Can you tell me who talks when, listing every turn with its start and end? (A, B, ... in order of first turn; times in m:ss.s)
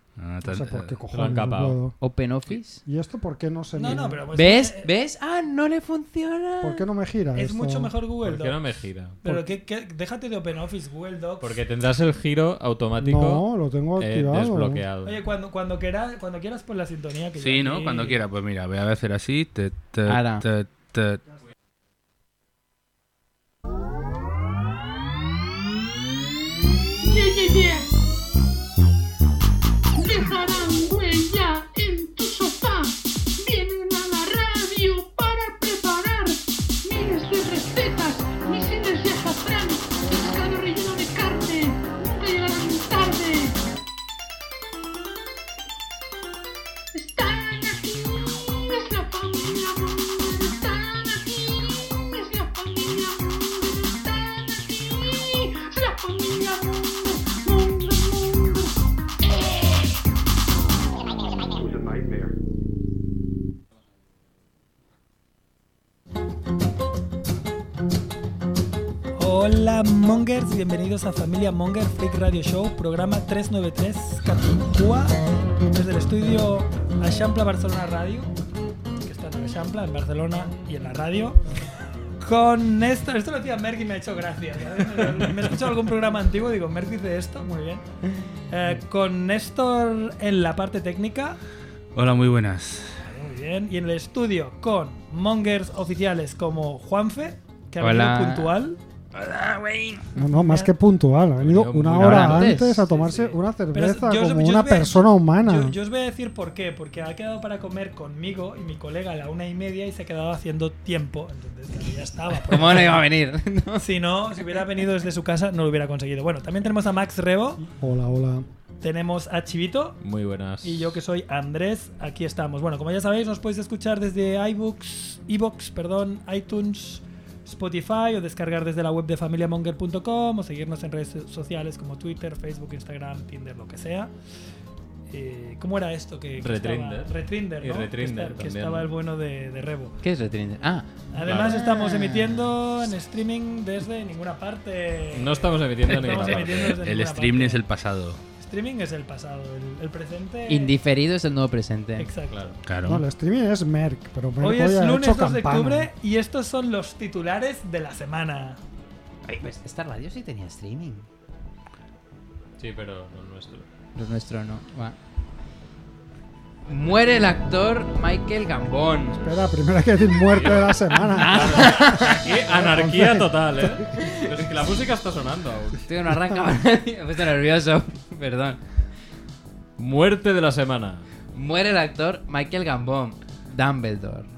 0:00.2-0:01.0 A
0:00.4-0:02.0 B
0:01.1-0:01.8 C
0:02.0-0:02.8 D
0:02.8-0:04.2 B
0:03.8-0:04.9 E
0:04.3-0:06.8 D
0:06.6-0:07.9 B
0:07.4-0:08.7 E
0:08.2-0:09.2 C
0:09.2-0:11.6 E
0:11.4-0:13.5 C
0:13.0-0:14.8 B
0:14.0-0:15.2 C
0:15.0-0:18.2 E
0:17.4-0:21.2 A
0:20.1-0:20.4 D
0:27.0-0:27.9 F
0:30.0-0:43.6 F
0:46.9-0:59.8 F
1:09.2-1:15.2 E
1:15.7-1:18.3 E
1:19.0-1:21.4 E
1:22.2-1:27.8 E
1:28.5-1:31.4 E
1:32.0-1:33.0 A
1:33.0-1:38.8 E
1:37.8-1:38.5 D
1:39.2-1:40.0 A
1:40.2-1:45.8 B
1:40.2-1:40.7 E
1:41.4-1:43.0 C
1:42.0-1:42.9 D
1:43.0-1:53.1 E
1:52.5-1:53.8 D
1:53.8-1:57.6 E
1:57.6-1:58.5 B
1:58.8-2:00.0 E
2:00.0-2:01.0 C
2:00.6-2:14.1 E
2:15.1-2:20.0 E
2:16.4-2:18.9 C
2:20.0-2:22.5 D
2:21.1-2:27.6 E
2:21.3-2:21.6 C
2:25.1-2:26.7 C
2:25.9-2:28.2 A
2:28.4-2:30.7 E
2:30.5-2:32.1 D
2:32.0-2:32.5 E
2:32.3-2:32.6 C
2:32.6-2:33.0 A
2:32.8-2:35.9 B
2:34.4-2:38.6 E
2:39.3-2:41.1 D
2:42.6-2:43.6 C
2:44.0-2:45.0 D
2:46.7-2:49.3 D
2:49.1-2:53.7 B
2:50.3-2:55.8 C
2:51.0-2:52.4 D
2:53.9-2:54.5 D
2:55.9-2:58.6 D
2:59.8-3:01.0 C
3:01.3-3:04.3 D